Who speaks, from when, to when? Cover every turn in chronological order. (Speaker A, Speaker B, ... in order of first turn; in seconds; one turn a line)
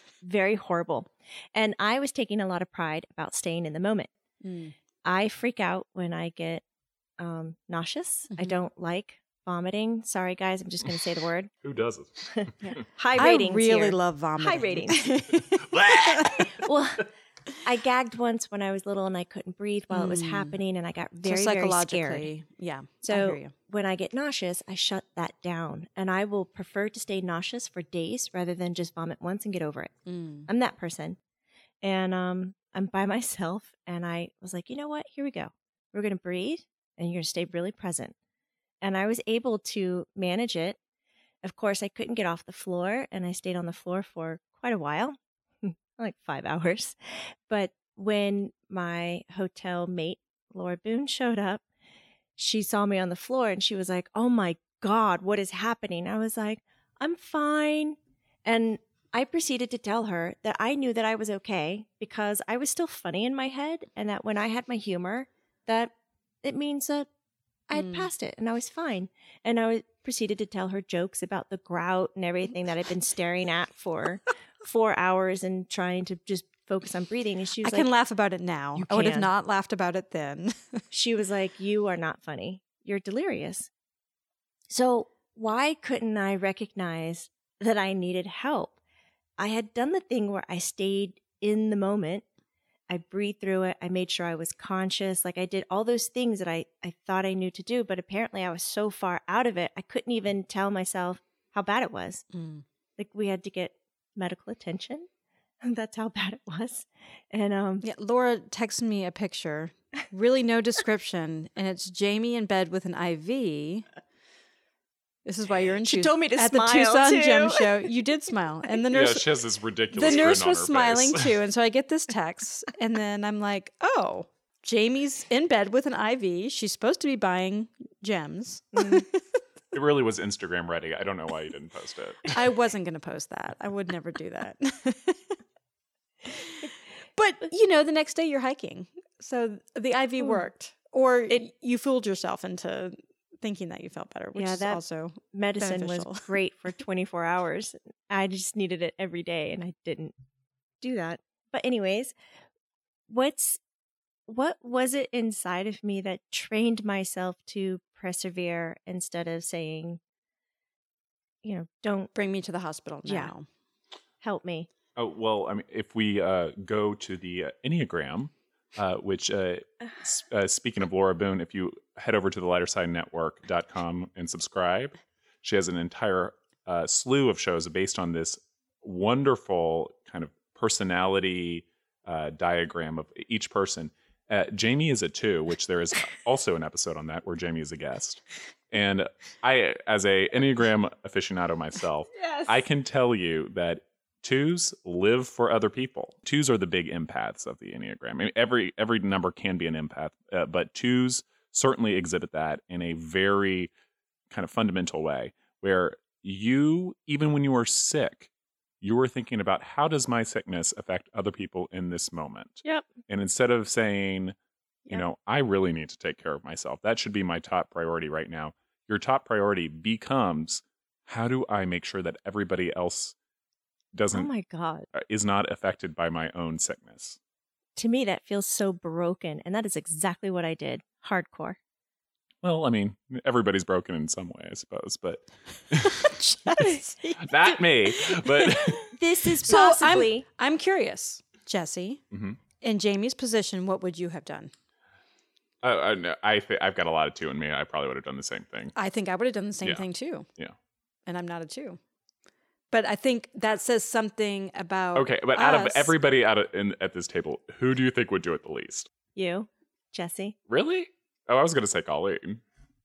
Speaker A: 0.2-4.1
Speaker B: 4.4-4.7
Speaker A: 5.0-6.6
Speaker A: 7.2-11.5
Speaker C: 11.6-12.6
Speaker A: 12.3-15.2
Speaker B: 12.6-16.5
Speaker C: 15.6-16.4
Speaker A: 16.5-17.1
Speaker A: 17.6-22.3
Speaker B: 19.9-20.6
Speaker B: 21.2-23.5
Speaker A: 23.0-29.9
Speaker B: 30.1-30.5
Speaker A: 30.5-31.2
Speaker A: 31.8-38.1
Speaker A: 38.8-40.8
Speaker A: 41.4-47.0
Speaker A: 47.5-51.6
Speaker A: 52.4-67.1
Speaker A: 67.7-77.9
Speaker B: 67.8-68.1
Speaker B: 77.6-80.8
Speaker A: 78.8-79.3
Speaker A: 80.9-83.7
Speaker A: 84.7-88.8
Speaker A: 89.4-92.2
Speaker A: 92.9-102.2
Speaker B: 102.3-102.6
Speaker A: 103.0-105.1
Speaker A: 105.6-107.8
Speaker B: 107.8-113.9
Speaker B: 115.2-119.3
Speaker A: 115.8-117.8
Speaker C: 118.9-121.3
Speaker B: 119.9-129.4
Speaker C: 129.7-132.3
Speaker B: 132.3-135.2
Speaker B: 136.3-146.3
Speaker A: 144.3-144.8
Speaker A: 145.3-150.1
Speaker A: 150.8-152.2
Speaker A: 153.1-153.6
Speaker A: 154.3-160.0
Speaker A: 161.4-162.1
Speaker B: 162.2-163.5
Speaker A: 163.1-163.3
Speaker A: 164.2-164.7
Speaker C: 165.0-203.7
Speaker A: 192.2-192.5
Speaker C: 204.3-208.3
Speaker C: 208.8-214.3
Speaker A: 212.6-212.9
Speaker C: 214.9-223.2
Speaker C: 223.9-224.3
Speaker A: 224.1-224.9
Speaker C: 224.9-227.2
Speaker A: 227.8-231.6
Speaker C: 232.4-236.6
Speaker B: 236.2-238.9
Speaker A: 236.6-236.9
Speaker C: 237.2-238.9
Speaker A: 238.9-240.2
Speaker B: 239.5-242.0
Speaker C: 242.1-242.4
Speaker B: 242.6-244.5
Speaker C: 245.6-248.7
Speaker B: 248.8-250.3
Speaker B: 251.1-251.8
Speaker B: 252.7-255.9
Speaker C: 254.9-258.9
Speaker A: 259.1-260.4
Speaker C: 260.5-262.4